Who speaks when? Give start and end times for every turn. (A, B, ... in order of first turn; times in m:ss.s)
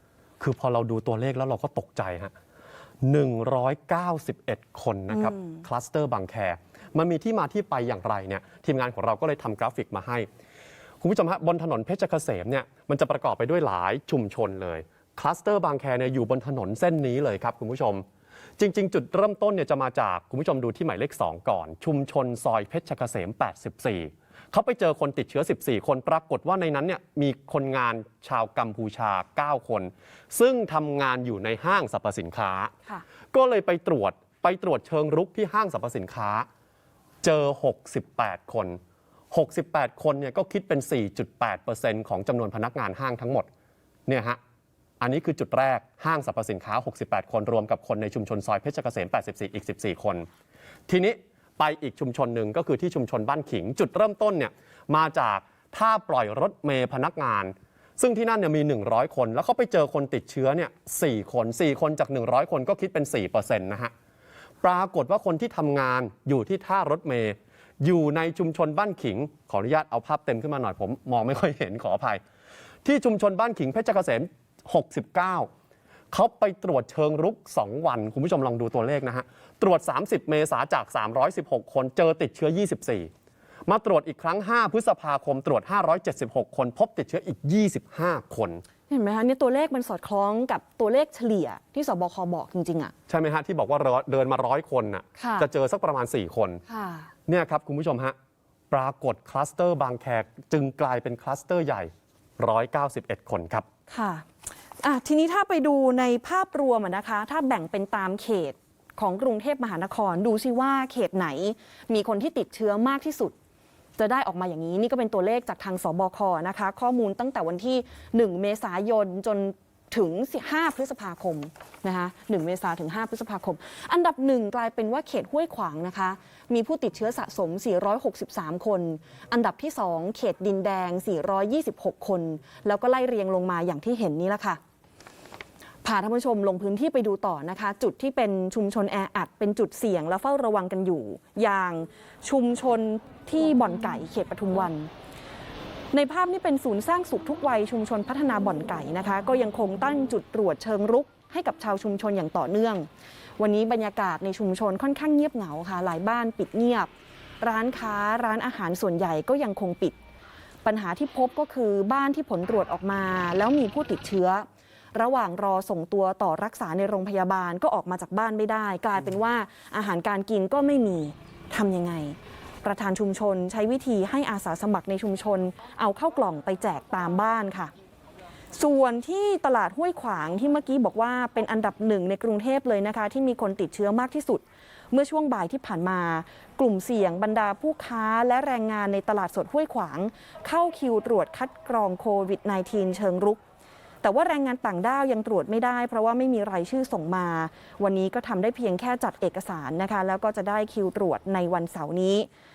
0:00.4-0:02.3 A
0:03.0-0:10.3 A
0:05.1-0:05.6 B
0:11.0-0:18.1 A
0:18.6-0:32.7 A
0:33.3-0:36.5 A
0:37.2-0:38.8 A
0:39.3-0:43.5 A
0:44.1-0:44.4 A
0:45.0-0:50.3 A
0:50.9-1:03.9 A
1:04.6-1:12.2 A
1:12.8-1:15.5 A
1:16.1-1:23.1 A
1:23.7-1:28.6 A
1:28.9-1:32.9 B
1:33.1-1:36.6 A
1:35.2-1:35.5 B
1:36.7-1:37.1 B
1:37.3-1:38.2 A
1:38.7-1:43.6 A
1:43.9-1:44.3 B
1:44.8-1:53.4 B
1:54.0-2:14.6 B
2:15.8-2:24.9 B
2:25.9-2:32.9 B
2:33.4-2:36.9 B
2:37.4-2:40.0 B
2:40.6-2:57.7 B
2:58.5-3:13.4 B
3:14.0-3:22.3 B